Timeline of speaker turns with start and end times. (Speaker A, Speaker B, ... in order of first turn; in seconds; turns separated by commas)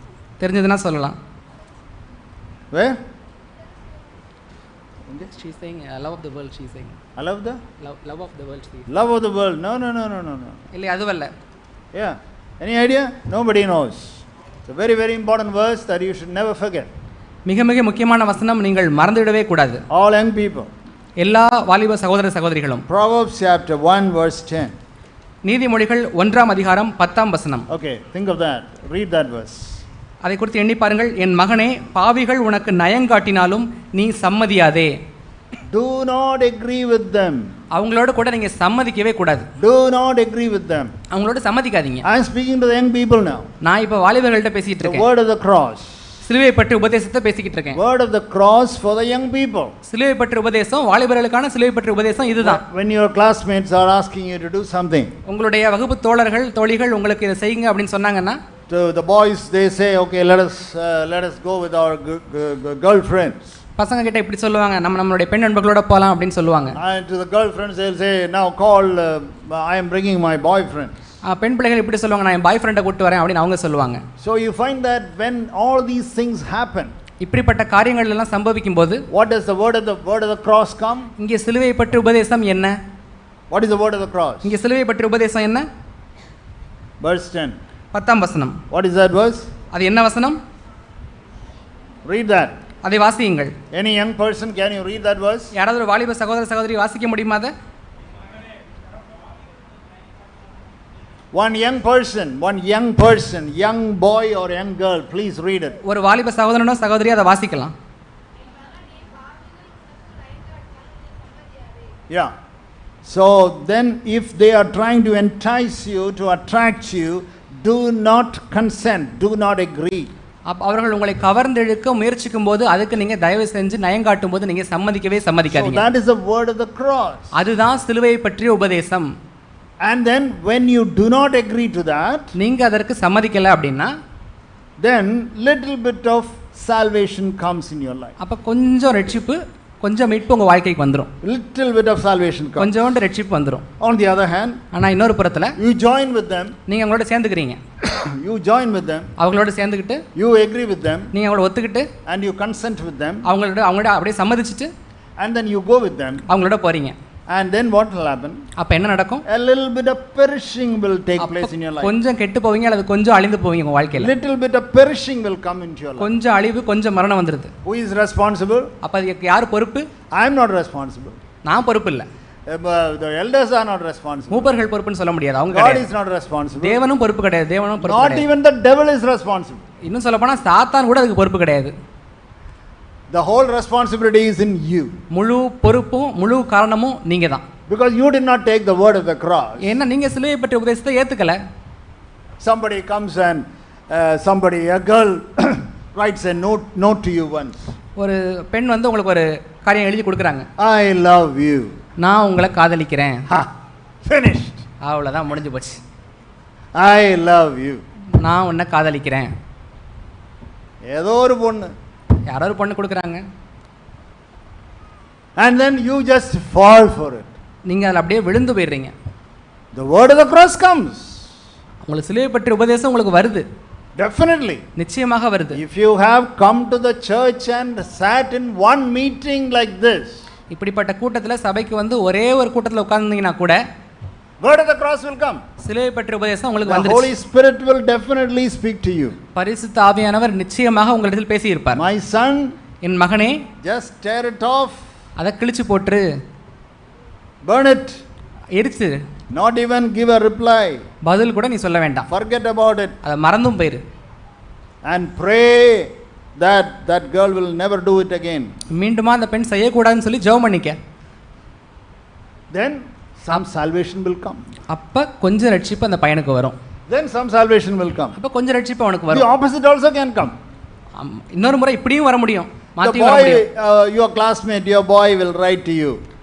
Speaker A: 0.4-1.2, Speaker B: 2.7-3.0, Speaker A: 5.3-7.0, Speaker B: 7.2-7.6, Speaker A: 7.8-8.9, Speaker B: 8.9-10.6, Speaker A: 10.7-11.3, Speaker B: 11.9-16.9, Speaker A: 17.4-19.8, Speaker B: 19.9-20.7, Speaker A: 21.2-22.9, Speaker B: 22.9-24.7, Speaker A: 25.4-27.6, Speaker B: 27.7-29.8, Speaker A: 30.2-34.9, Speaker B: 35.7-37.5, Speaker A: 37.7-39.5, Speaker B: 39.6-40.9, Speaker A: 41.1-42.0, Speaker B: 42.0-43.5, Speaker A: 43.6-45.0, Speaker B: 44.8-45.9, Speaker A: 46.2-47.8, Speaker B: 47.7-49.7, Speaker A: 49.8-52.6, Speaker B: 52.4-55.1, Speaker A: 55.2-58.4, Speaker B: 58.7-63.5, Speaker A: 63.8-66.8, Speaker B: 66.7-70.9, Speaker A: 71.2-74.0, Speaker B: 74.2-76.9, Speaker A: 77.2-79.0, Speaker B: 79.1-81.1, Speaker A: 81.2-82.8, Speaker B: 83.5-84.5, Speaker A: 84.4-85.7, Speaker B: 87.0-87.5, Speaker A: 87.9-88.6, Speaker B: 88.7-89.5, Speaker A: 89.7-90.4, Speaker B: 92.0-92.5, Speaker A: 92.8-93.5, Speaker B: 93.7-95.5, Speaker A: 95.5-97.5, Speaker B: 101.3-105.8, Speaker A: 105.8-107.7, Speaker B: 113.0-120.1, Speaker A: 120.5-125.8, Speaker B: 125.5-127.3, Speaker A: 127.3-129.1, Speaker B: 129.8-132.3, Speaker A: 132.3-133.9, Speaker B: 134.8-138.1, Speaker A: 138.2-141.1, Speaker B: 141.2-142.8, Speaker A: 142.6-143.7, Speaker B: 143.8-144.6, Speaker A: 144.7-145.6, Speaker B: 145.6-146.5, Speaker A: 146.7-147.6, Speaker B: 147.8-149.1, Speaker A: 149.2-150.0, Speaker B: 150.1-151.1, Speaker A: 151.1-151.9, Speaker B: 152.1-153.2, Speaker A: 153.2-154.7, Speaker B: 155.2-156.2, Speaker A: 156.3-156.9, Speaker B: 157.3-158.4, Speaker A: 158.6-159.2, Speaker B: 159.3-161.9, Speaker A: 161.2-164.1, Speaker B: 164.0-166.1, Speaker A: 166.0-167.5, Speaker B: 167.6-168.7, Speaker A: 168.8-169.9, Speaker B: 170.1-171.2, Speaker A: 171.4-172.1, Speaker B: 172.5-174.5, Speaker A: 174.3-175.9, Speaker B: 175.5-176.8, Speaker A: 176.6-178.3, Speaker B: 177.8-179.6, Speaker A: 179.8-181.7, Speaker B: 183.1-184.9, Speaker A: 185.1-187.4, Speaker B: 187.7-189.7, Speaker A: 189.6-191.4, Speaker B: 192.4-197.7, Speaker A: 198.0-200.5, Speaker B: 200.6-201.8, Speaker A: 202.0-203.2, Speaker B: 204.0-204.6, Speaker A: 204.8-205.8, Speaker B: 206.8-207.8, Speaker A: 208.1-209.3, Speaker B: 210.9-211.7, Speaker A: 212.3-213.2, Speaker B: 215.4-217.3, Speaker A: 217.7-218.9, Speaker B: 219.7-221.2, Speaker A: 221.8-223.4, Speaker B: 224.0-224.6, Speaker A: 224.8-225.6, Speaker B: 225.5-230.2, Speaker A: 230.5-233.6, Speaker B: 234.4-235.4, Speaker A: 235.6-237.1, Speaker B: 236.7-239.2, Speaker A: 239.3-241.8, Speaker B: 241.7-242.5, Speaker A: 242.8-243.4, Speaker B: 243.6-244.8, Speaker A: 245.2-246.1, Speaker B: 247.4-248.0, Speaker A: 248.6-249.0, Speaker B: 249.3-250.8, Speaker A: 251.0-252.1, Speaker B: 252.1-253.0, Speaker A: 253.0-253.8, Speaker B: 254.8-258.5, Speaker A: 258.7-260.8, Speaker B: 262.5-264.4, Speaker A: 264.7-266.5, Speaker B: 266.9-268.1, Speaker A: 268.1-269.3, Speaker B: 269.1-270.4, Speaker A: 271.0-273.4, Speaker B: 272.8-276.0